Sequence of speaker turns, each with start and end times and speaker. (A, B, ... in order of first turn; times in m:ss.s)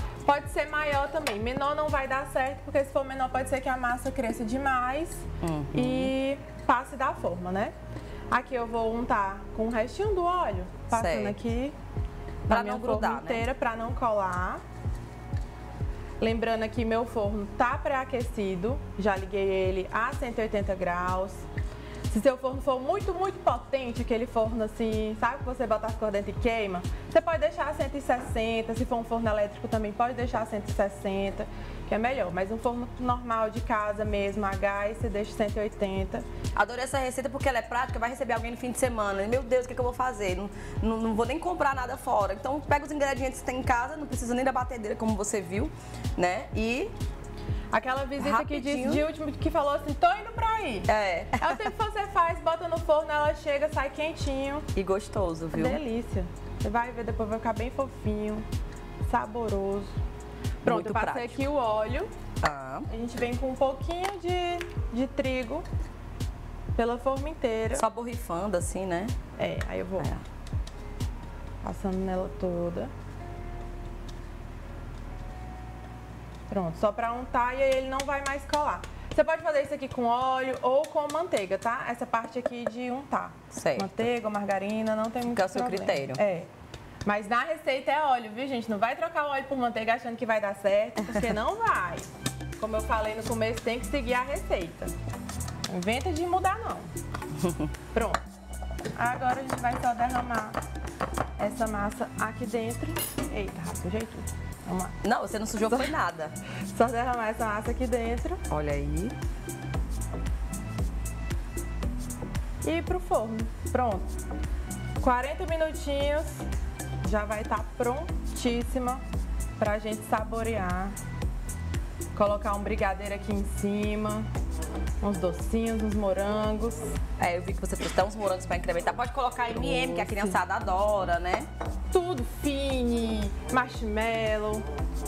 0:00.2-0:07.7 A
0:05.4-0:06.1 B
0:08.3-0:11.7 A
0:10.9-0:11.4 B
0:12.5-0:14.6 A
0:12.5-0:13.4 B
0:16.2-0:21.4 A
0:22.1-0:36.2 A
0:36.5-0:46.9 B
0:47.7-0:50.9 A
0:48.2-0:49.0 B
0:50.9-0:51.7 B
0:51.4-0:54.7 A
0:54.7-0:55.8 B
0:55.5-0:58.4 A
0:59.0-0:59.9 A
1:00.6-1:02.1 A
1:00.6-1:01.4 B
1:02.4-1:02.9 B
1:02.9-1:05.6 A
1:06.8-1:07.8 A
1:07.7-1:09.1 B
1:09.4-1:10.1 A
1:11.6-1:12.9 A
1:16.5-1:26.5 A
1:23.5-1:23.9 B
1:25.3-1:26.2 B
1:27.0-1:32.0 A
1:32.6-1:34.9 A
1:35.7-1:36.9 A
1:37.4-1:37.7 B
1:37.9-1:38.2 A
1:39.0-1:40.6 A
1:41.4-1:45.0 A
1:45.0-1:46.4 B
1:45.7-1:45.9 A
1:46.7-1:48.4 A
1:48.5-1:49.1 B
1:52.6-1:54.1 A
1:55.0-1:56.5 A
1:57.0-1:59.0 A
1:59.6-2:00.9 A
2:02.1-2:04.3 A
2:05.0-2:06.9 A
2:07.2-2:11.5 B
2:09.5-2:10.4 A
2:11.9-2:14.6 A